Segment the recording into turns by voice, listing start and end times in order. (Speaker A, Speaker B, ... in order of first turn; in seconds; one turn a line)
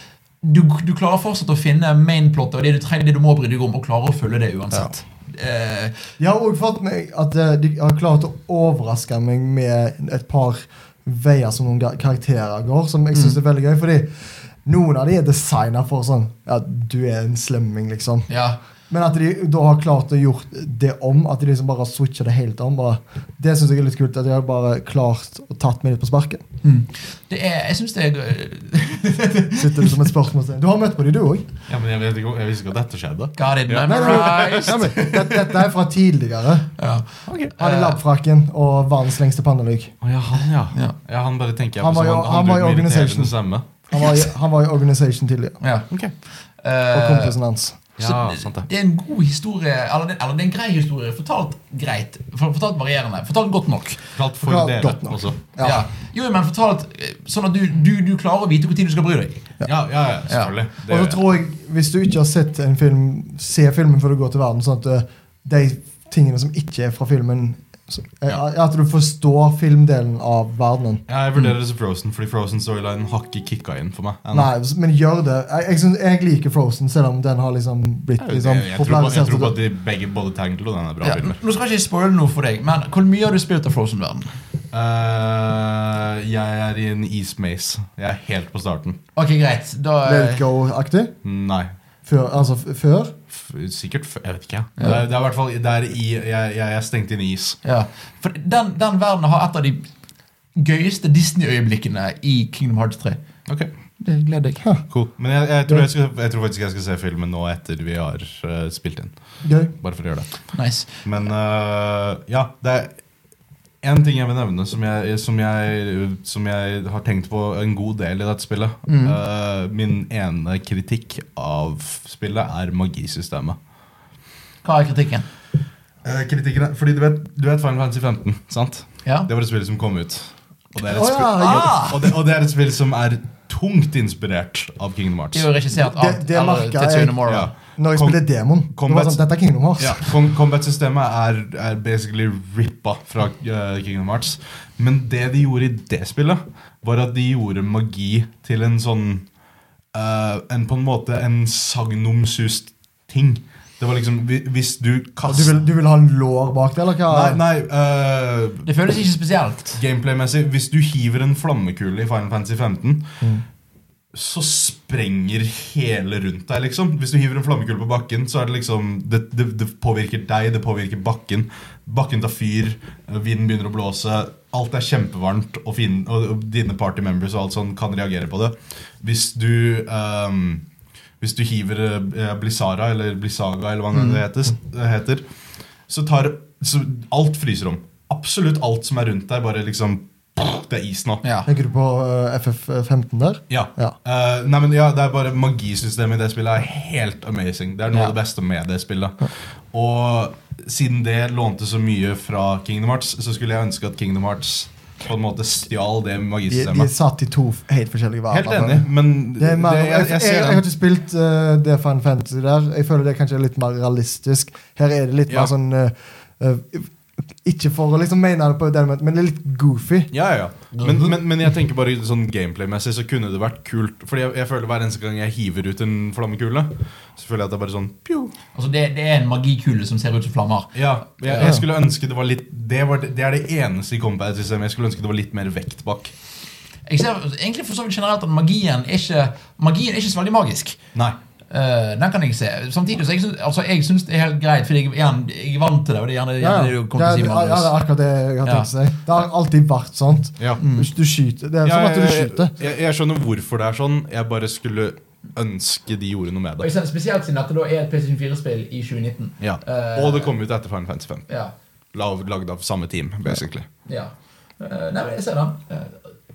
Speaker A: 0.4-6.0
Speaker B: 6.2-18.3
Speaker A: 18.3-18.6
Speaker B: 18.9-26.4
Speaker A: 26.6-29.9
Speaker B: 29.6-31.5
Speaker C: 31.7-35.6
Speaker A: 33.4-34.9
Speaker B: 33.9-36.7
Speaker A: 36.8-38.0
Speaker C: 37.3-37.5
Speaker B: 37.6-40.0
Speaker C: 40.0-43.7
Speaker B: 41.8-43.4
Speaker B: 43.9-45.6
Speaker A: 43.9-44.2
Speaker A: 45.6-47.4
Speaker B: 46.9-47.8
Speaker C: 48.0-48.7
Speaker A: 48.0-54.0
Speaker C: 54.2-55.4
Speaker B: 54.4-55.8
Speaker A: 55.6-59.5
Speaker C: 59.6-61.2
Speaker A: 60.3-60.5
Speaker B: 60.9-71.0
Speaker C: 71.1-74.5
Speaker B: 74.3-79.6
Speaker C: 78.2-81.4
Speaker A: 81.0-84.3
Speaker C: 84.7-89.0
Speaker A: 89.2-90.4
Speaker B: 90.0-91.2
Speaker C: 91.2-91.7
Speaker B: 92.0-93.1
Speaker C: 93.3-97.6
Speaker A: 97.6-99.9
Speaker A: 100.6-103.2
Speaker A: 104.0-104.6
Speaker B: 104.6-104.9
Speaker C: 104.9-112.9
Speaker B: 109.4-109.7
Speaker A: 110.5-110.9
Speaker C: 113.8-123.6
Speaker A: 118.9-119.2
Speaker A: 124.6-125.3
Speaker C: 126.0-135.5
Speaker B: 130.9-131.7
Speaker A: 131.4-132.0
Speaker A: 135.3-137.5
Speaker B: 135.8-140.1
Speaker C: 137.3-139.2
Speaker C: 139.8-149.3
Speaker C: 149.9-155.6
Speaker B: 155.2-157.4
Speaker C: 157.1-158.7
Speaker A: 158.7-159.8
Speaker C: 159.8-163.1
Speaker C: 164.1-180.6
Speaker C: 181.2-185.2
Speaker A: 183.9-184.2
Speaker C: 185.9-191.2
Speaker A: 191.2-191.5
Speaker B: 191.4-193.9
Speaker C: 193.5-206.9
Speaker B: 206.5-216.9
Speaker C: 208.3-210.6
Speaker B: 217.4-220.1
Speaker C: 220.1-228.3
Speaker A: 220.7-221.1
Speaker A: 228.6-231.5
Speaker C: 230.8-236.1
Speaker B: 231.4-231.7
Speaker A: 236.9-240.8
Speaker A: 241.5-247.8
Speaker B: 246.4-252.5
Speaker A: 250.6-250.9
Speaker C: 251.6-256.7
Speaker A: 256.6-260.3
Speaker C: 259.4-261.3
Speaker A: 261.3-261.5
Speaker C: 261.9-263.7
Speaker A: 263.9-266.0